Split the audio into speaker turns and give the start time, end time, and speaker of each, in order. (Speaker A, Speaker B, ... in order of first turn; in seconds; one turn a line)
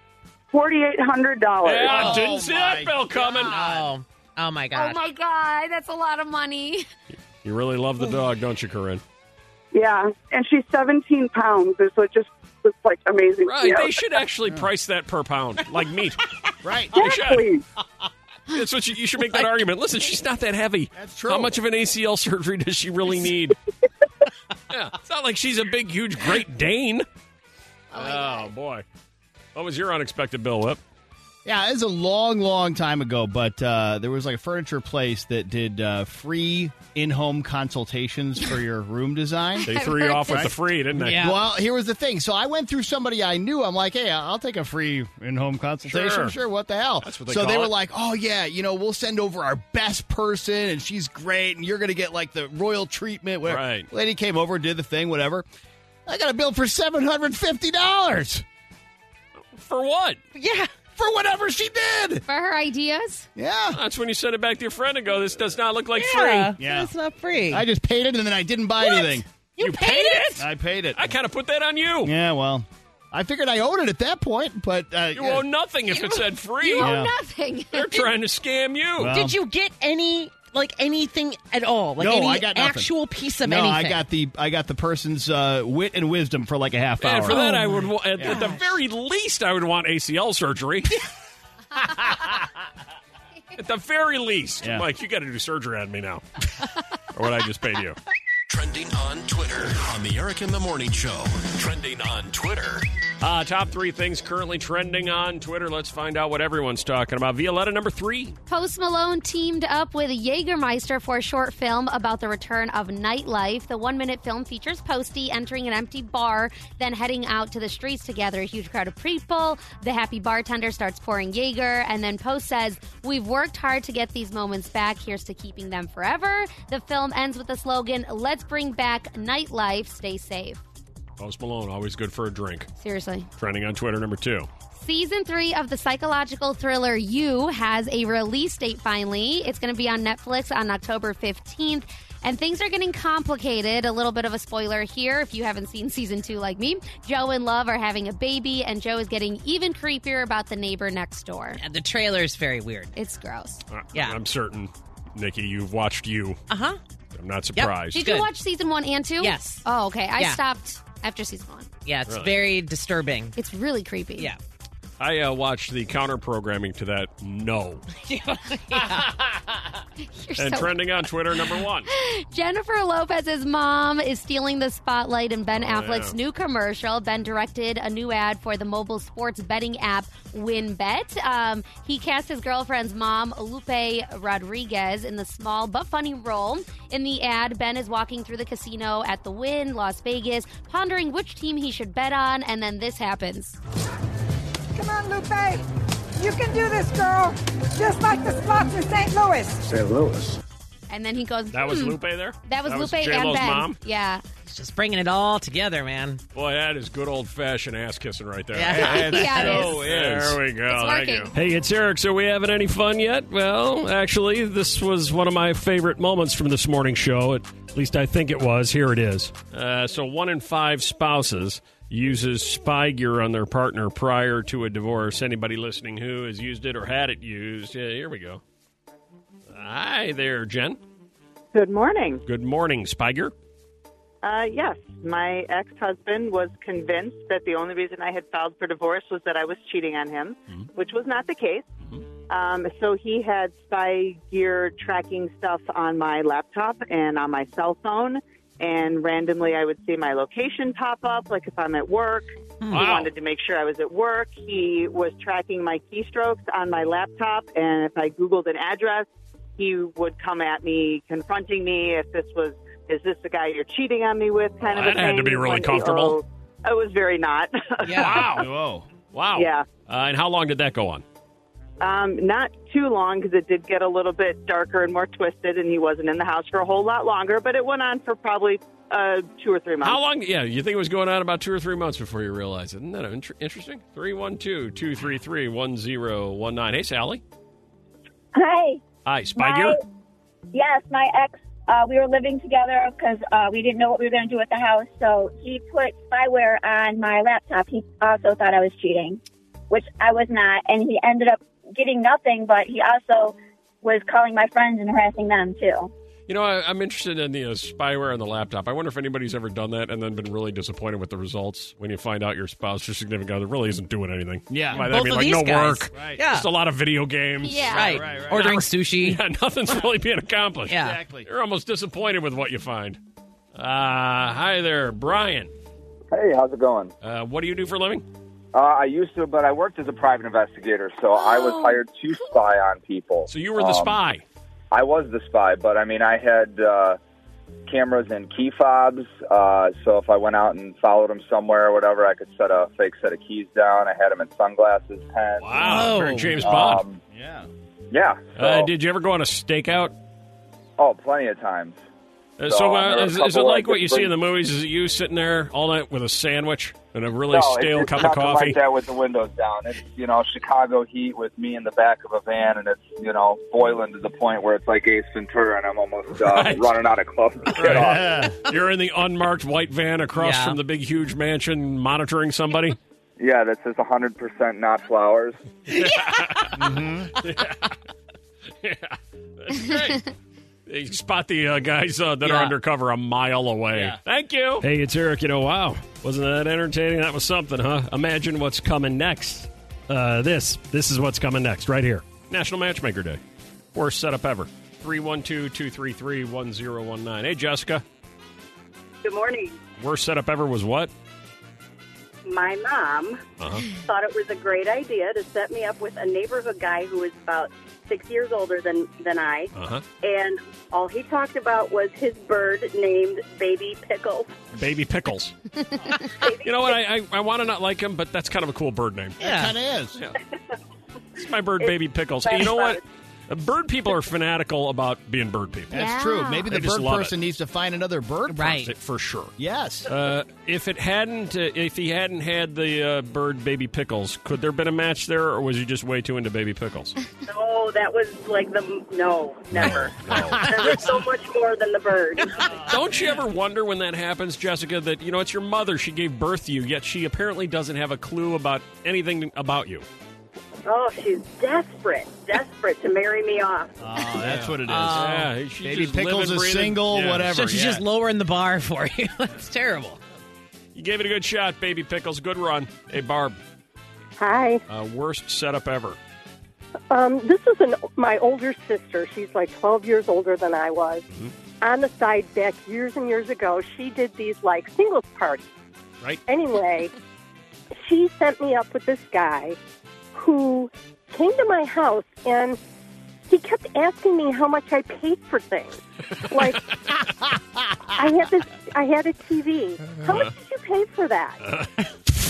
Speaker A: 0.5-2.2
Speaker B: 1.6-3.5
Speaker C: 1.8-3.9
Speaker D: 3.4-5.0
Speaker E: 4.7-6.9
Speaker B: 7.4-9.0
Speaker A: 9.7-14.2
Speaker B: 13.4-16.2
Speaker C: 16.6-17.0
Speaker B: 16.9-17.5
Speaker A: 17.0-17.6
Speaker B: 18.5-23.6
Speaker C: 20.9-21.6
Speaker B: 24.7-27.1
Speaker E: 27.9-28.5
Speaker B: 27.9-28.8
Speaker B: 29.6-30.8
Speaker C: 31.4-39.7
Speaker E: 39.6-40.5
Speaker B: 39.7-41.4
Speaker C: 40.3-40.5
Speaker D: 40.9-41.4
Speaker C: 41.1-55.5
Speaker B: 45.9-46.4
Speaker B: 47.0-47.7
Speaker B: 53.5-53.9
Speaker C: 56.1-58.5
Speaker B: 59.4-60.2
Speaker D: 60.4-60.7
Speaker C: 61.0-62.2
Speaker E: 62.3-63.3
Speaker C: 63.4-63.8
Speaker B: 63.7-66.5
Speaker D: 65.9-67.7
Speaker C: 66.6-66.9
Speaker C: 67.5-69.3
Speaker D: 69.6-70.4
Speaker B: 69.6-72.1
Speaker C: 70.4-71.0
Speaker C: 72.0-75.5
Speaker B: 75.1-77.0
Speaker E: 75.9-78.1
Speaker C: 76.8-77.1
Speaker B: 77.7-79.2
Speaker C: 79.0-79.4
Speaker D: 79.0-84.0
Speaker C: 82.0-82.9
Speaker C: 83.4-87.4
Speaker B: 87.0-91.0
Speaker D: 87.3-88.7
Speaker C: 88.2-88.5
Speaker B: 93.6-96.4
Speaker B: 97.1-98.0
Speaker F: 98.5-102.8
Speaker B: 103.2-108.4
Speaker E: 108.5-130.6
Speaker B: 131.2-132.7
Speaker E: 132.8-133.3
Speaker B: 133.4-134.5
Speaker E: 134.7-151.6
Speaker D: 151.6-152.9
Speaker E: 153.0-153.6
Speaker B: 153.7-156.4
Speaker D: 153.9-154.2
Speaker D: 156.5-156.8
Speaker B: 157.1-158.1
Speaker D: 157.6-158.3
Speaker E: 157.9-161.7
Speaker D: 159.2-160.4
Speaker D: 161.9-163.4
Speaker B: 162.1-162.4
Speaker E: 163.4-164.3
Speaker B: 165.0-167.9
Speaker D: 168.0-169.2
Speaker E: 170.0-170.8
Speaker B: 170.4-171.9
Speaker E: 171.9-193.6
Speaker B: 175.5-176.2
Speaker G: 194.8-195.6
Speaker G: 196.2-199.7
Speaker E: 200.9-204.2
Speaker B: 201.5-203.8
Speaker D: 204.5-206.2
Speaker B: 206.3-228.4
Speaker D: 208.6-209.7
Speaker C: 208.6-210.4
Speaker E: 208.8-209.8
Speaker E: 210.7-211.3
Speaker B: 229.5-230.8
Speaker H: 231.5-232.2
Speaker B: 232.3-233.3
Speaker H: 234.2-241.7
Speaker H: 242.3-268.4
Speaker D: 252.6-252.9
Speaker B: 252.7-253.1
Speaker B: 264.6-266.2
Speaker D: 267.8-268.2
Speaker B: 267.9-268.5
Speaker C: 268.3-268.9
Speaker B: 269.1-271.0
Speaker H: 269.4-269.7
Speaker H: 271.8-280.0
Speaker B: 279.8-287.2
Speaker I: 288.3-288.8
Speaker B: 289.1-289.8
Speaker I: 289.4-289.8
Speaker I: 290.5-305.9
Speaker B: 306.3-323.0
Speaker C: 314.5-314.9
Speaker D: 314.7-316.5
Speaker C: 315.9-316.2
Speaker E: 317.4-318.1
Speaker D: 317.7-319.2
Speaker C: 317.8-318.6
Speaker D: 320.7-321.0
Speaker C: 320.7-321.3
Speaker B: 323.6-325.5
Speaker J: 326.1-326.9
Speaker B: 327.0-328.1
Speaker J: 328.5-334.0
Speaker E: 331.1-331.8
Speaker B: 333.3-334.2
Speaker J: 334.7-337.0
Speaker J: 337.7-347.0
Speaker B: 345.4-346.8
Speaker D: 345.6-346.5
Speaker C: 347.1-347.5
Speaker J: 347.9-348.7
Speaker B: 348.4-349.9
Speaker J: 350.8-351.8
Speaker B: 352.4-358.6
Speaker J: 352.5-354.1
Speaker J: 357.3-368.3
Speaker B: 366.1-366.8
Speaker B: 367.5-372.8
Speaker C: 367.6-368.4
Speaker D: 370.1-370.6
Speaker J: 373.2-375.4
Speaker B: 375.7-377.8
Speaker C: 376.6-377.2
Speaker B: 378.6-380.1
Speaker B: 380.7-393.2
Speaker D: 382.2-382.5
Speaker C: 383.7-384.0
Speaker B: 393.7-397.8
Speaker K: 399.0-399.6
Speaker B: 399.8-400.9
Speaker K: 402.2-414.4
Speaker B: 403.4-403.8
Speaker B: 409.6-409.8
Speaker B: 414.6-415.4
Speaker K: 416.0-416.8
Speaker B: 416.4-419.2
Speaker D: 419.2-419.6
Speaker C: 419.2-420.0
Speaker B: 421.2-425.8
Speaker K: 421.6-422.8
Speaker C: 425.7-428.6
Speaker E: 425.7-426.5
Speaker B: 426.5-427.1
Speaker D: 428.3-428.7
Speaker B: 428.6-429.4
Speaker C: 429.4-429.9
Speaker B: 429.9-437.0
Speaker K: 437.3-442.6
Speaker B: 439.6-440.8
Speaker C: 439.6-440.7
Speaker C: 442.4-443.2
Speaker B: 442.7-449.9
Speaker K: 450.7-453.8
Speaker C: 453.8-457.9
Speaker B: 454.2-457.4
Speaker D: 454.6-455.3
Speaker D: 457.3-460.0
Speaker B: 460.8-463.4
Speaker L: 464.2-464.6
Speaker B: 464.7-466.0
Speaker L: 466.9-471.1
Speaker L: 471.6-475.4
Speaker L: 476.3-476.9
Speaker L: 477.7-479.6
Speaker L: 480.1-482.6
Speaker L: 483.3-486.8
Speaker L: 487.9-491.4
Speaker B: 491.4-491.7